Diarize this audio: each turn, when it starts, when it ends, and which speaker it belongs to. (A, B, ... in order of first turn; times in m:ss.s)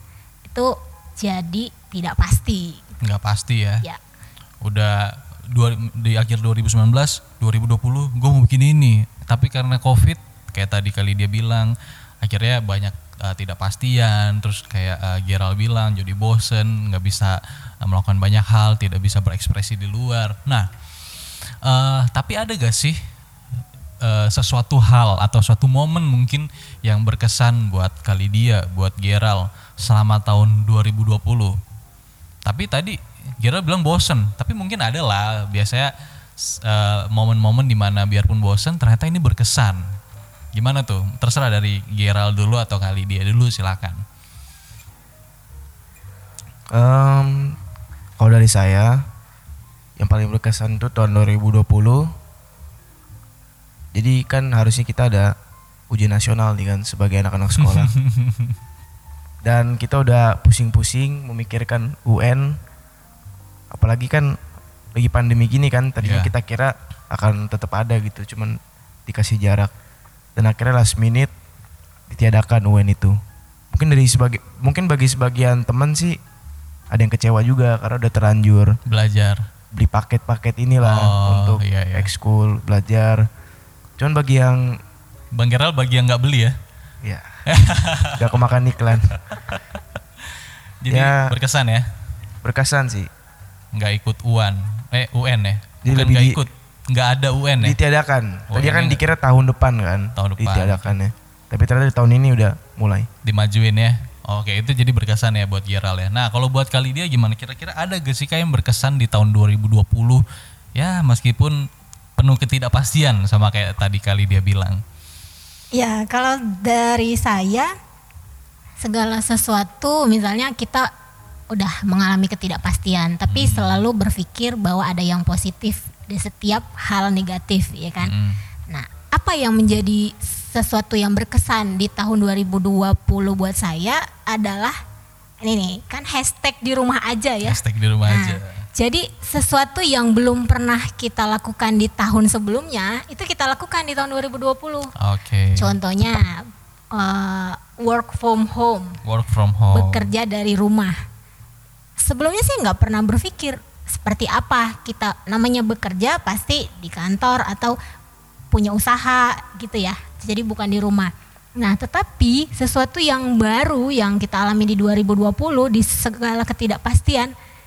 0:00.4-0:03.0 A
0:03.0-0:03.8 B
0:04.6-0:20.7 B
0:21.6-0:23.0 B
0:24.0-0:31.6 B
0:32.4-0:39.9 B
0:40.5-0:44.0 B
0:46.7-0:47.6 C
0:48.2-0:49.0 C
0:50.0-0:52.1 C
0:53.9-0:55.3 C
0:55.9-0:57.9 C
0:57.6-0:58.6 B
0:59.4-1:02.6 C
1:03.7-1:04.4 C
1:05.0-1:09.7 C
1:06.0-1:06.3 B
1:10.4-1:11.3 C
1:12.1-1:13.2 C
1:13.7-1:16.2 C
1:16.9-1:18.8 C
1:18.9-1:19.5 B
1:19.7-1:23.3 C
1:20.8-1:22.1 B
1:24.0-1:24.8 C
1:25.3-1:26.6 B
1:27.0-1:27.3 C
1:27.5-1:28.3 B
1:28.2-1:29.2 C
1:29.1-1:29.8 B
1:30.3-1:31.9 B
1:30.9-1:31.3 C
1:32.4-1:33.1 C
1:33.7-1:37.8 B
1:35.8-1:36.4 C
1:37.6-1:43.1 C
1:38.5-1:39.0 B
1:40.2-1:41.0 B
1:43.2-1:50.2 B
1:50.8-1:54.8 B
1:55.7-1:57.7 A
1:58.8-2:00.9 A
2:01.5-2:08.1 A
2:03.3-2:03.8 B
2:08.0-2:08.4 B
2:08.7-2:14.8 A
2:15.4-2:24.9 A
2:17.4-2:18.6 B
2:25.0-2:25.7 B
2:25.6-2:29.0 A
2:29.0-2:30.1 B
2:29.7-2:31.0 A
2:32.0-2:37.8 A
2:38.5-2:47.3 A